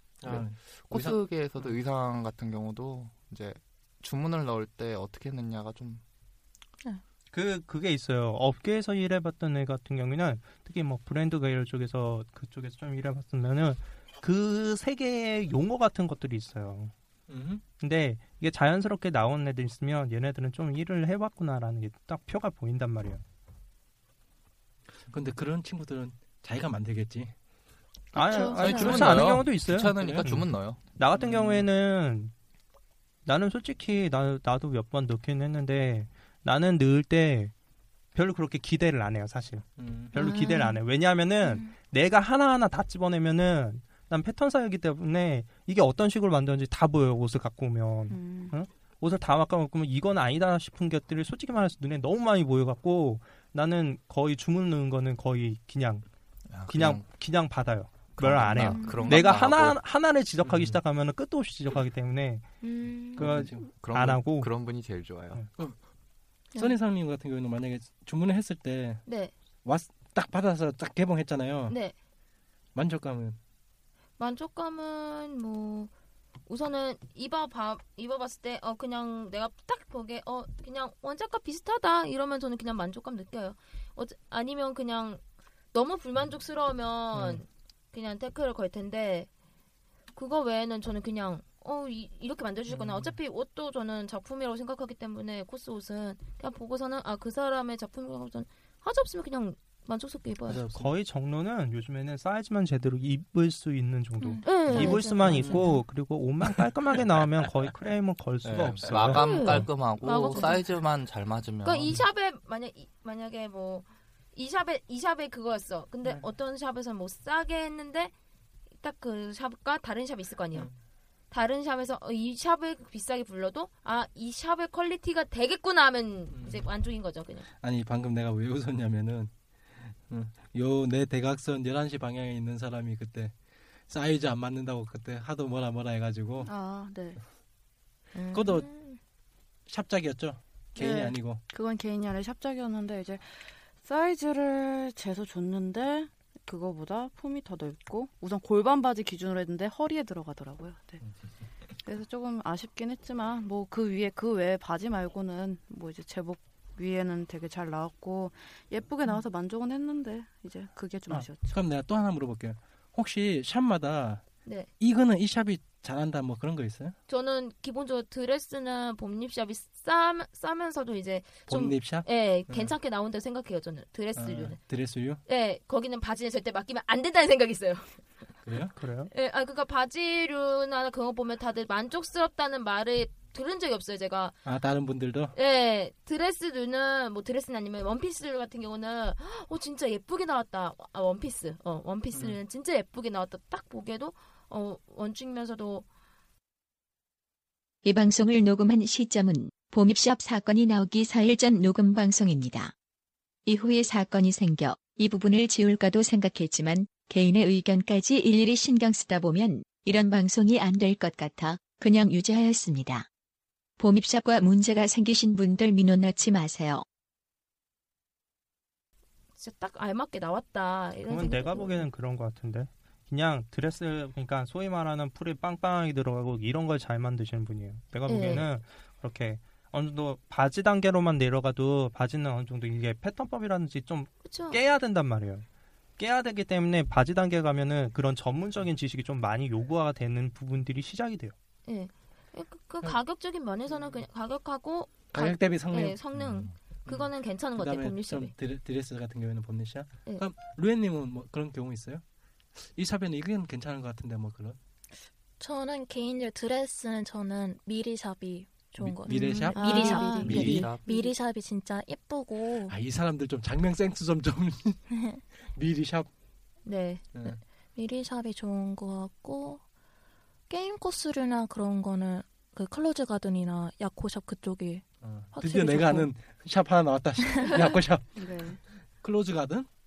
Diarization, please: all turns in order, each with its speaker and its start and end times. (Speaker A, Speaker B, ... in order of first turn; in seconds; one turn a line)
Speaker A: 0.2-1.7
Speaker B: 0.2-6.0
Speaker C: 7.3-16.9
Speaker A: 17.3-17.6
Speaker C: 17.8-23.2
Speaker A: 25.1-27.3
Speaker C: 28.1-32.3
Speaker D: 28.2-28.6
Speaker E: 28.2-28.8
Speaker B: 28.6-30.8
Speaker A: 29.0-29.4
Speaker A: 29.9-30.4
Speaker A: 31.1-31.7
Speaker C: 33.2-37.5
Speaker C: 38.1-56.0
Speaker A: 39.8-40.1
Speaker D: 40.1-40.8
Speaker E: 48.1-48.5
Speaker B: 56.5-57.0
Speaker C: 56.7-62.5
Speaker B: 58.2-59.8
Speaker E: 58.8-59.1
Speaker A: 60.4-60.8
Speaker F: 62.6-63.2
Speaker C: 63.1-64.5
Speaker A: 63.2-63.7
Speaker B: 63.2-65.4
Speaker A: 66.5-69.0
Speaker F: 69.0-69.3
Speaker A: 69.6-71.8
Speaker F: 71.7-71.9
Speaker A: 72.7-73.4
Speaker F: 74.2-75.9
Speaker F: 76.5-85.2
Speaker F: 85.7-89.3
Speaker A: 87.1-87.4
Speaker F: 90.1-100.6
Speaker A: 92.7-93.1
Speaker A: 100.5-100.9
Speaker C: 100.7-109.6
Speaker D: 104.2-105.0
Speaker F: 104.4-105.7
Speaker A: 105.2-105.7
Speaker B: 108.4-112.0
Speaker F: 109.1-110.7
Speaker F: 111.6-118.1
Speaker F: 118.8-120.7
Speaker F: 121.3-127.5
Speaker A: 126.3-126.7
Speaker A: 127.6-133.3
Speaker A: 133.9-136.5
Speaker E: 136.4-137.2
Speaker E: 138.2-138.6
Speaker A: 138.3-138.7
Speaker A: 139.7-141.4
Speaker E: 140.8-151.0
Speaker E: 151.8-161.6
Speaker A: 161.5-164.2
Speaker A: 164.8-166.9
Speaker F: 167.1-174.6
Speaker A: 171.5-172.7
Speaker A: 174.1-175.2
Speaker F: 175.2-178.0
Speaker A: 178.4-178.8
Speaker C: 178.8-179.1
Speaker F: 179.1-184.4
Speaker A: 184.4-185.3
Speaker F: 185.3-195.8
Speaker A: 192.1-192.4
Speaker G: 197.8-202.7
Speaker G: 203.4-213.1
Speaker G: 213.8-216.8
Speaker F: 219.4-221.9
Speaker C: 221.1-235.4
Speaker F: 228.1-228.4
Speaker F: 234.2-234.6
Speaker C: 236.0-241.3
Speaker F: 241.7-248.3
Speaker A: 243.7-244.0
Speaker A: 245.1-246.0
Speaker B: 246.1-246.5
Speaker A: 246.8-252.0
Speaker A: 252.6-254.6
Speaker D: 255.4-262.8
Speaker A: 258.8-260.7
Speaker E: 259.1-260.3
Speaker F: 259.5-260.7
Speaker B: 260.2-260.9
Speaker A: 262.7-264.8
Speaker D: 264.9-265.2
Speaker A: 265.5-266.1
Speaker F: 266.6-267.1
Speaker A: 267.1-267.4
Speaker D: 267.8-269.6
Speaker D: 270.5-276.1
Speaker A: 275.0-278.2
Speaker E: 278.1-278.6
Speaker A: 278.9-279.7